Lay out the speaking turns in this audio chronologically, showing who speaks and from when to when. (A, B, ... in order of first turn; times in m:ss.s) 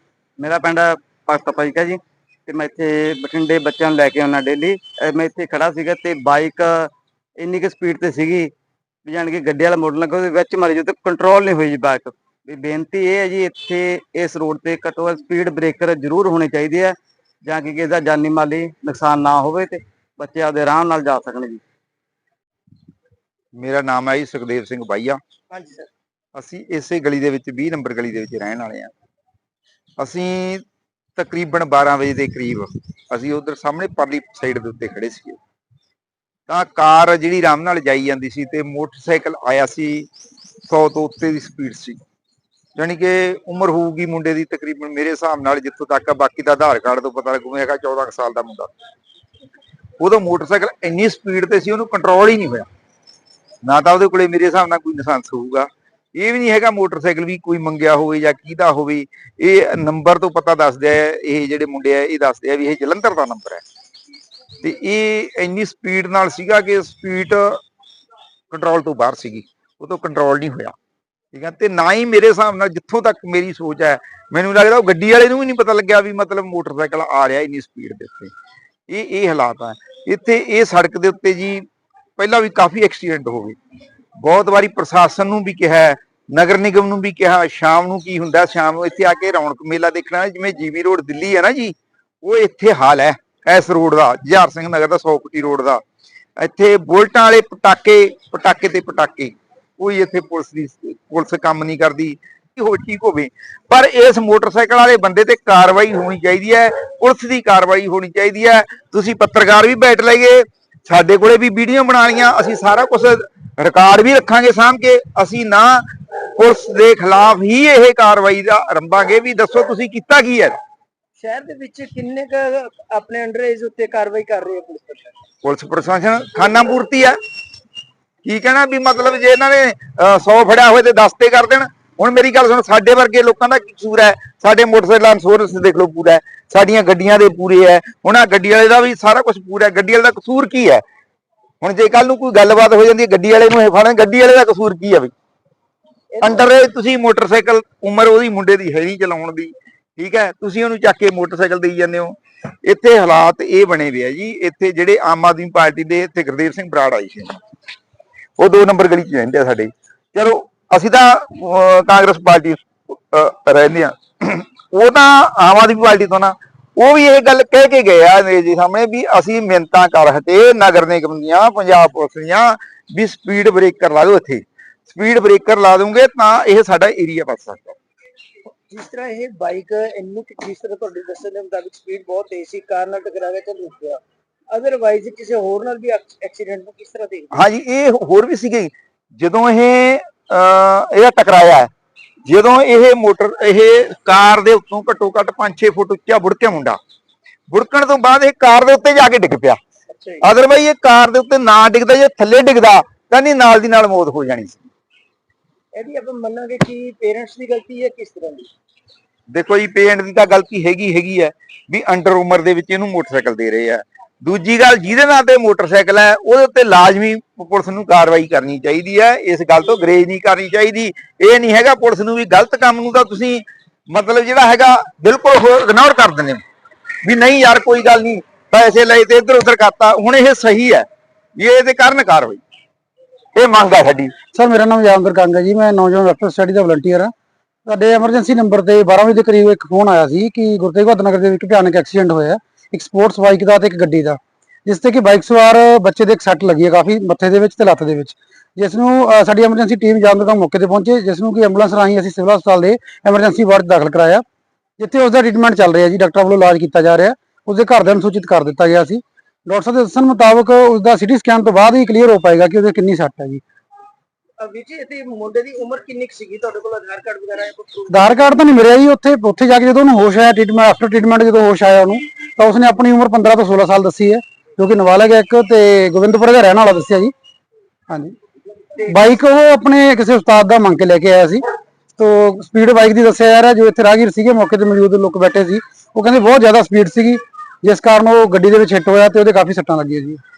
0:00.4-0:08.5 A
0:09.0-0:21.6 A
0:23.6-0:25.2 B
0:25.5-0:25.9 C
0:26.4-0:28.9 B
0:30.0-0:30.6 B
0:31.2-0:35.4 B
0:36.5-0:40.1 B
0:40.7-0:42.0 B
0:42.8-0:48.7 B
0:50.0-0:52.7 B
0:53.6-1:03.6 B
1:04.6-1:07.6 B
1:08.5-1:10.7 B
1:11.3-1:18.3 B
1:18.9-1:21.6 B
1:22.2-1:23.6 B
1:24.2-1:35.8 B
1:36.4-1:55.8 B
1:56.4-2:00.6 B
2:01.2-2:05.2 C
2:05.4-2:07.2 B
2:08.2-2:20.8 B
2:21.6-2:25.1 B
2:26.1-2:26.5 C
2:26.2-2:37.4 B
2:38.4-2:57.8 B
2:58.7-3:07.3 C
3:07.3-3:11.7 B
3:12.3-3:16.8 B
3:17.5-3:19.6 B
3:19.9-3:20.3 C
3:20.2-3:24.7 B
3:25.8-3:28.5 C
3:29.3-3:46.4 B
3:47.0-3:50.9 B
3:51.4-3:52.4 B
3:53.4-3:54.1 B
3:54.3-3:57.1 D
3:57.7-4:14.2 D
4:14.8-4:23.4 D
4:24.4-4:28.4 C
4:27.9-4:37.1 D
4:37.9-4:38.2 D
4:38.8-4:41.4 D
4:42.0-4:50.2 D